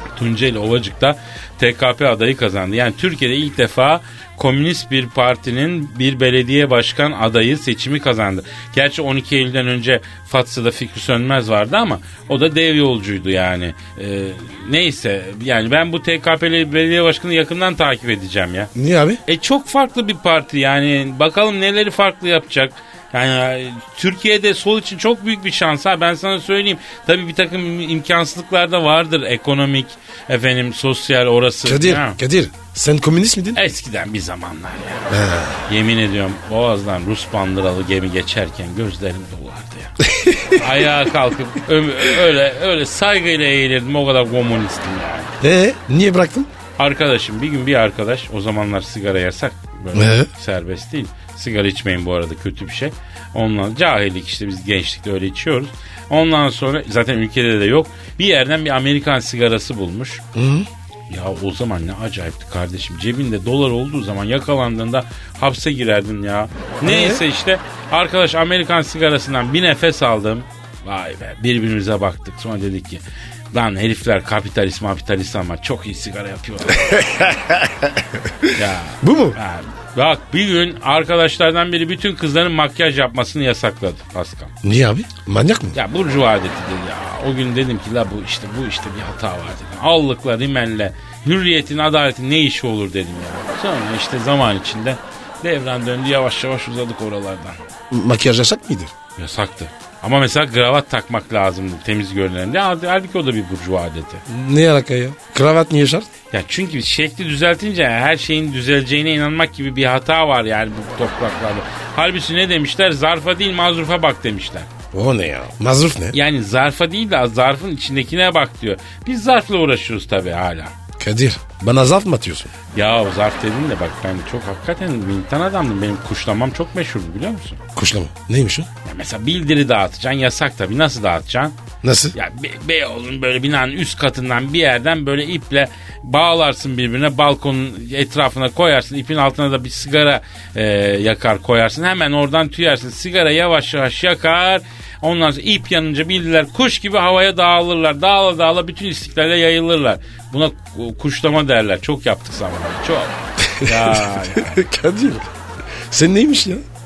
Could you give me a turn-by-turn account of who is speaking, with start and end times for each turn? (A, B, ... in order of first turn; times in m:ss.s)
0:00.2-0:18.7 A
0:18.7-0:19.2 B
0:19.3-0:32.2 A
0:31.6-0:33.6 B
0:33.5-0:35.1 A
0:35.1-0:35.6 B
0:35.7-0:39.9 A
0:40.0-0:40.6 B
0:40.5-0:45.3 A
0:45.4-0:46.5 B
0:46.8-1:00.2 A
0:49.9-0:50.3 B
1:00.3-1:00.7 B
1:01.1-1:17.2 A
1:06.8-1:07.2 B
1:16.7-1:18.5 B
1:18.5-1:24.5 A
1:19.0-1:19.4 B
1:24.6-1:25.8 B
1:25.7-1:37.6 A
1:37.9-1:38.9 B
1:39.2-1:44.2 A
1:44.3-1:46.1 B
1:46.3-1:54.7 A
1:54.9-1:56.2 B
1:56.1-2:00.7 A
2:01.0-2:02.5 B
2:02.7-2:07.6 A
2:07.7-2:08.7 B
2:08.8-2:11.6 A
2:11.8-2:12.1 B
2:12.1-2:34.6 A
2:33.4-2:35.3 B
2:35.9-2:36.6 B